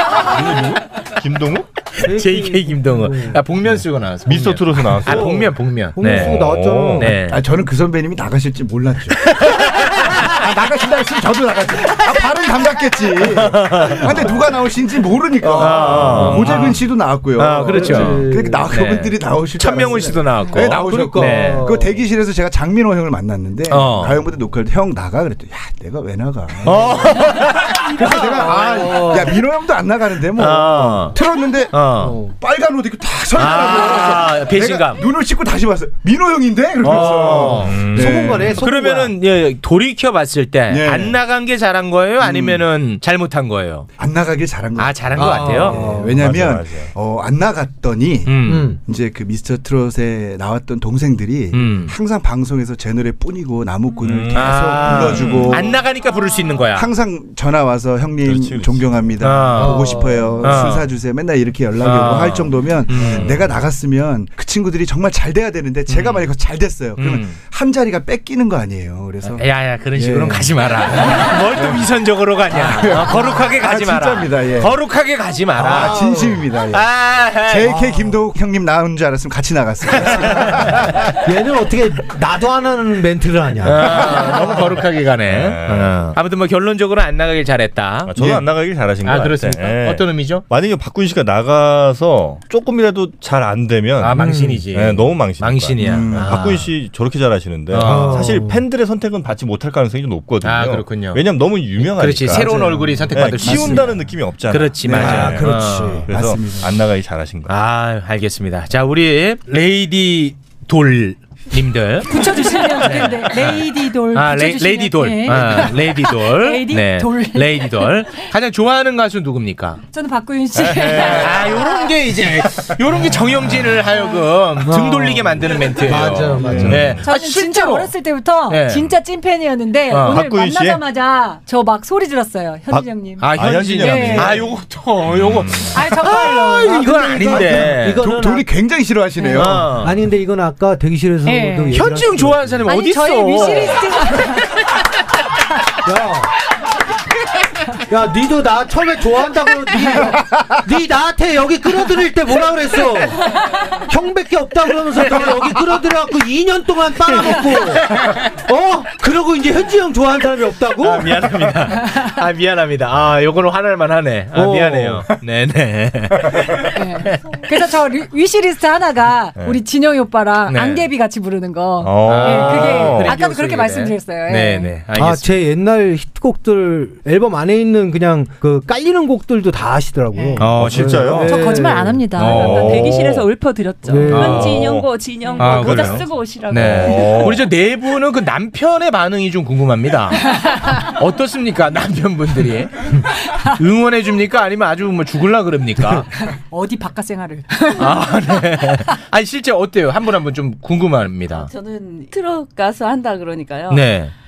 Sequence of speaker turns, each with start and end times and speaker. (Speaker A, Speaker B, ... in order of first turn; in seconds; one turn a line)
Speaker A: 0.2-0.7
Speaker B: 1.2-1.7
Speaker A: 2.0-7.4
Speaker C: 2.0-3.4
Speaker B: 4.3-7.2
Speaker C: 5.0-7.2
Speaker D: 7.3-38.6
Speaker A: 9.2-10.4
Speaker A: 13.4-14.1
Speaker A: 15.4-16.8
Speaker B: 15.6-16.5
Speaker C: 15.7-16.7
Speaker A: 17.4-21.7
Speaker C: 17.6-18.7
Speaker C: 19.8-22.0
Speaker A: 23.7-24.2
Speaker A: 26.6-27.9
Speaker C: 27.9-29.4
Speaker A: 30.4-31.2
Speaker A: 31.7-32.2
Speaker C: 32.0-32.4
Speaker A: 33.4-35.0
Speaker A: 36.8-37.9
Speaker C: 36.9-39.1
Speaker B: 37.0-38.3
Speaker A: 38.6-43.9
Speaker D: 40.7-41.2
Speaker D: 42.2-42.6
Speaker D: 44.0-55.7
Speaker A: 44.8-45.8
Speaker C: 45.1-46.2
Speaker B: 45.9-46.9
Speaker A: 48.3-48.7
Speaker C: 48.5-48.8
Speaker A: 51.5-51.9
Speaker B: 54.0-55.7
Speaker A: 54.3-56.9
Speaker D: 56.7-71.9
Speaker B: 58.2-59.0
Speaker A: 59.2-60.9
Speaker C: 59.5-60.5
Speaker A: 61.8-63.4
Speaker B: 62.9-63.5
Speaker A: 65.9-66.3
Speaker A: 67.0-67.4
Speaker A: 69.2-76.0
Speaker D: 72.5-74.8
Speaker D: 75.6-76.9
Speaker C: 75.6-76.5
Speaker A: 76.7-77.8
Speaker D: 77.5-81.0
Speaker A: 80.0-80.5
Speaker C: 81.2-84.5
Speaker A: 83.6-88.1
Speaker B: 85.3-86.1
Speaker B: 88.1-107.5
Speaker D: 88.2-88.5
Speaker A: 89.0-90.4
Speaker A: 94.0-96.7
Speaker C: 94.2-94.6
Speaker D: 95.8-96.4
Speaker A: 97.7-98.3
Speaker C: 97.8-98.6
Speaker A: 100.4-101.2
Speaker A: 101.8-106.1
Speaker C: 102.5-103.0
Speaker D: 103.3-104.0
Speaker D: 104.8-106.8
Speaker C: 105.0-106.1
Speaker A: 107.5-119.8
Speaker E: 112.0-118.1
Speaker E: 119.9-121.9
Speaker B: 120.5-121.5
Speaker A: 121.0-127.9
Speaker C: 124.6-127.0
Speaker B: 126.4-127.0
Speaker E: 127.0-134.4
Speaker A: 128.5-128.9
Speaker A: 129.9-130.2
Speaker B: 130.1-130.8
Speaker B: 132.7-135.8
Speaker A: 133.2-138.0
Speaker E: 135.7-137.0
Speaker C: 136.0-138.5
Speaker D: 138.0-139.7
Speaker A: 139.3-140.0
Speaker C: 139.5-142.6
Speaker E: 141.2-141.8
Speaker A: 141.7-144.2
Speaker E: 142.7-144.5
Speaker C: 145.8-146.3
Speaker C: 147.9-161.4
Speaker A: 157.2-158.2
Speaker A: 160.8-167.2
Speaker C: 164.3-165.1
Speaker E: 166.7-174.7
Speaker A: 170.5-170.9
Speaker B: 171.8-173.2
Speaker A: 172.0-175.4
Speaker C: 174.9-182.2
Speaker E: 180.2-180.4
Speaker A: 180.4-181.1
Speaker B: 180.5-181.4
Speaker F: 181.2-187.3
Speaker E: 181.3-182.1
Speaker A: 182.2-182.7
Speaker B: 182.2-183.3
Speaker C: 183.8-184.6
Speaker A: 184.1-184.6
Speaker B: 184.2-187.5
Speaker A: 185.4-192.9
Speaker A: 193.4-196.1
Speaker E: 196.2-198.5
Speaker A: 197.8-201.5
Speaker G: 201.3-203.9
Speaker A: 203.7-204.1